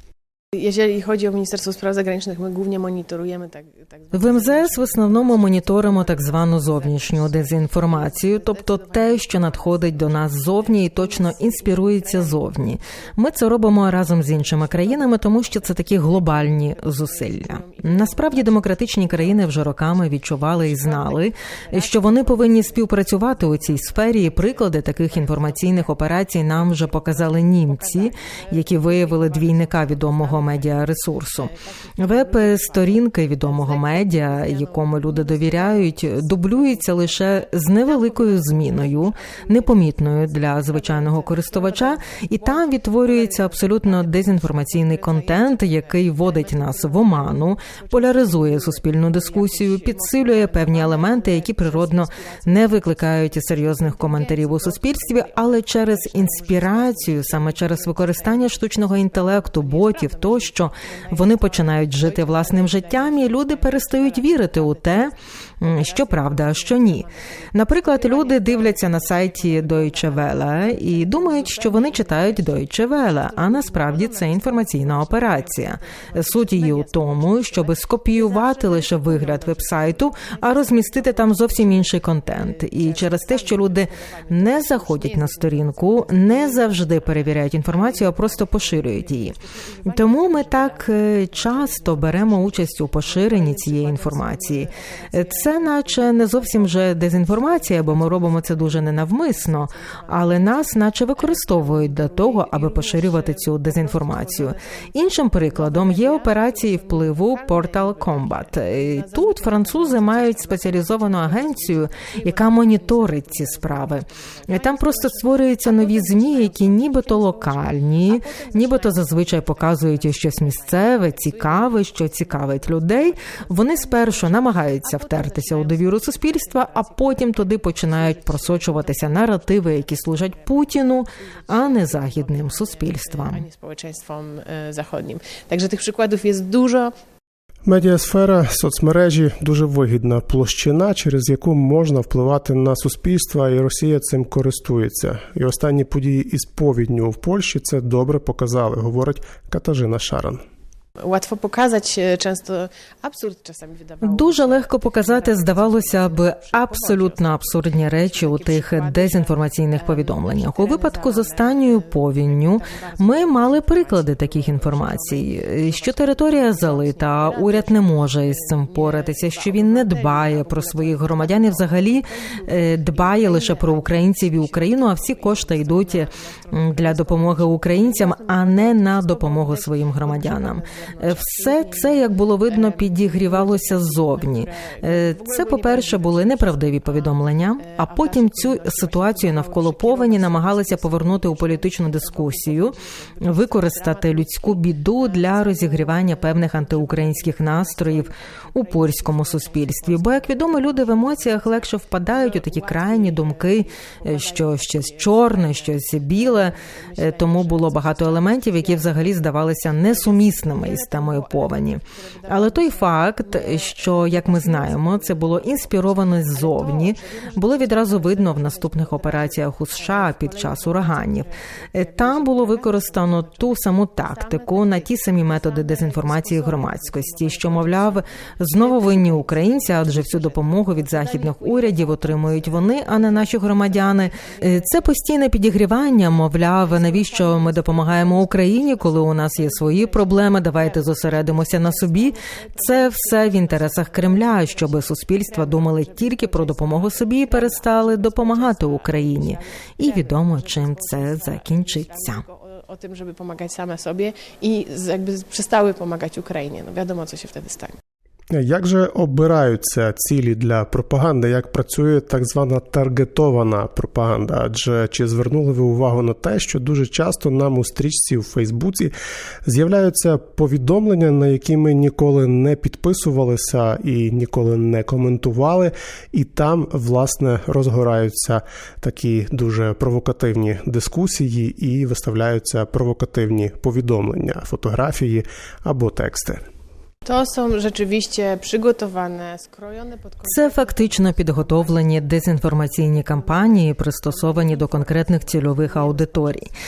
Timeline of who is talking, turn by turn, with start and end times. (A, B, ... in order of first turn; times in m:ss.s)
0:00.5-0:12.6 A
0:04.1-1:29.4 B
0:14.0-1:05.1 A
1:05.6-1:07.1 A
1:07.7-2:10.8 A
1:29.9-2:13.4 B
2:11.5-2:16.9 A
2:17.6-2:30.4 C
2:31.0-3:29.2 A
2:34.0-4:12.2 B
3:29.8-3:54.9 A
3:56.6-4:17.8 A
4:18.3-4:28.9 C
4:29.4-4:46.4 C
4:47.0-4:56.5 A
4:50.3-4:56.5 B